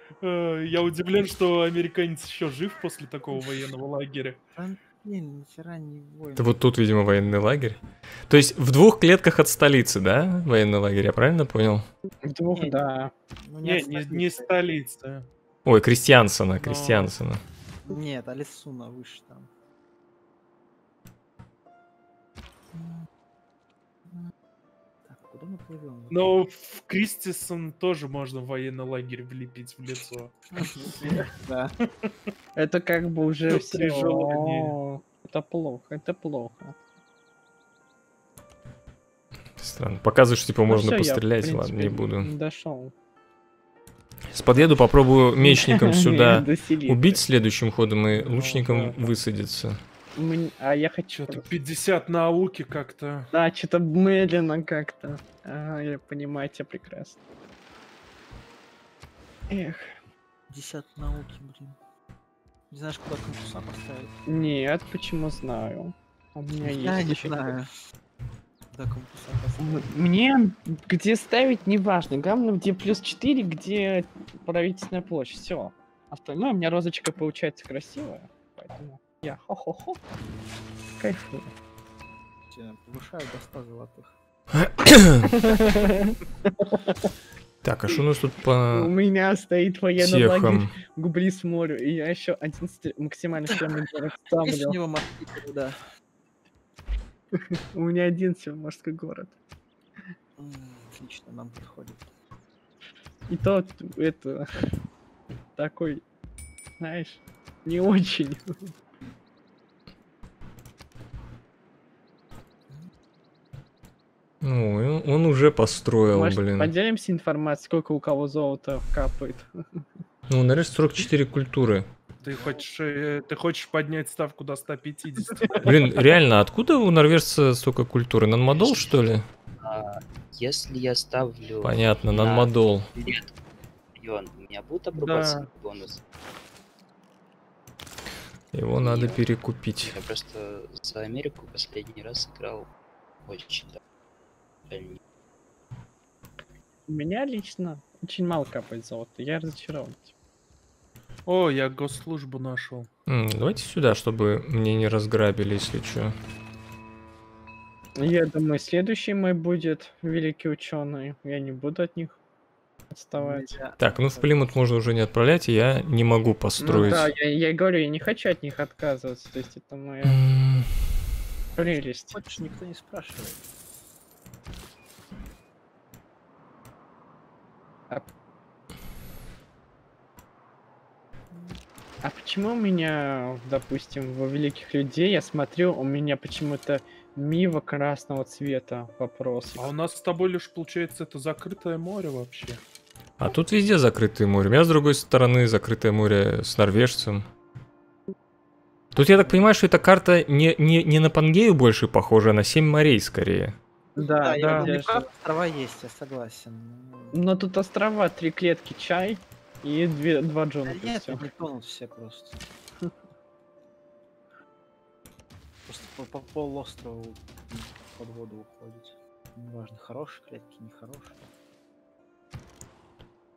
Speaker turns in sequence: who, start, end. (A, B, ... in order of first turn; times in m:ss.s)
0:00.2-0:04.4 A
0:04.6-0:06.6 B
0:06.4-0:11.8 C
0:12.3-0:13.1 D
0:12.6-0:12.8 B
0:13.4-0:14.5 B
0:13.6-0:15.3 A
0:15.7-0:17.4 C
0:16.6-0:17.1 A
0:17.8-0:19.5 B
0:22.7-0:23.1 B
0:25.0-0:26.5 B
0:26.1-0:30.9 A
0:30.6-0:31.8 B
0:32.6-0:36.8 D
0:33.5-0:34.8 A
0:39.6-0:42.3 C
0:40.7-0:42.9 D
0:44.3-0:49.8 C
0:45.4-0:47.2 D
0:48.1-0:49.1 A
0:50.2-0:51.5 D
0:51.1-0:53.3 A
0:53.3-0:57.2 D
0:59.5-0:59.9 D
1:00.5-1:01.8 B
1:02.7-1:04.2 B
1:04.3-1:07.5 D
1:06.6-1:07.7 B
1:08.7-1:09.9 B
1:09.6-1:20.0 D
1:21.0-1:21.5 D
1:22.5-1:24.2 B
1:24.5-1:25.3 C
1:25.2-1:26.9 D
1:27.6-1:28.9 C
1:28.7-1:34.8 D
1:30.0-1:30.8 C
1:33.5-1:33.8 B
1:34.4-1:35.8 B
1:37.4-1:39.3 D
1:40.4-1:42.1 B
1:43.3-1:44.5 D
1:45.6-1:46.0 D
1:46.8-1:48.7 D
1:54.4-1:56.7 C
1:56.1-1:59.8 D
2:00.3-2:01.9 C
2:02.2-2:06.0 A
2:05.6-2:09.3 C
2:09.6-2:13.3 E
2:11.6-2:12.9 C
2:14.0-2:16.0 E
2:14.9-2:15.5 A
2:18.5-2:20.0 C
2:18.8-2:19.2 E
2:19.8-2:22.7 E
2:23.3-2:23.8 E
2:24.7-2:25.0 E
2:26.9-2:30.1 D
2:31.3-2:32.9 A
2:33.1-2:36.2 C
2:38.0-2:42.2 D
2:42.9-2:43.6 D
2:43.2-2:44.5 B
2:43.8-2:47.1 C
2:46.6-2:50.2 D
2:50.0-2:50.7 C
2:51.6-2:52.2 D
2:52.1-2:53.4 B
3:02.0-3:09.7 D
3:09.6-3:12.6 A
3:13.2-3:17.3 C
3:18.9-3:23.6 C
3:24.0-3:25.0 D
3:24.0-3:27.2 B
3:24.4-3:24.8 A
3:27.1-3:31.3 D
3:30.6-3:32.4 B
3:35.7-3:41.2 B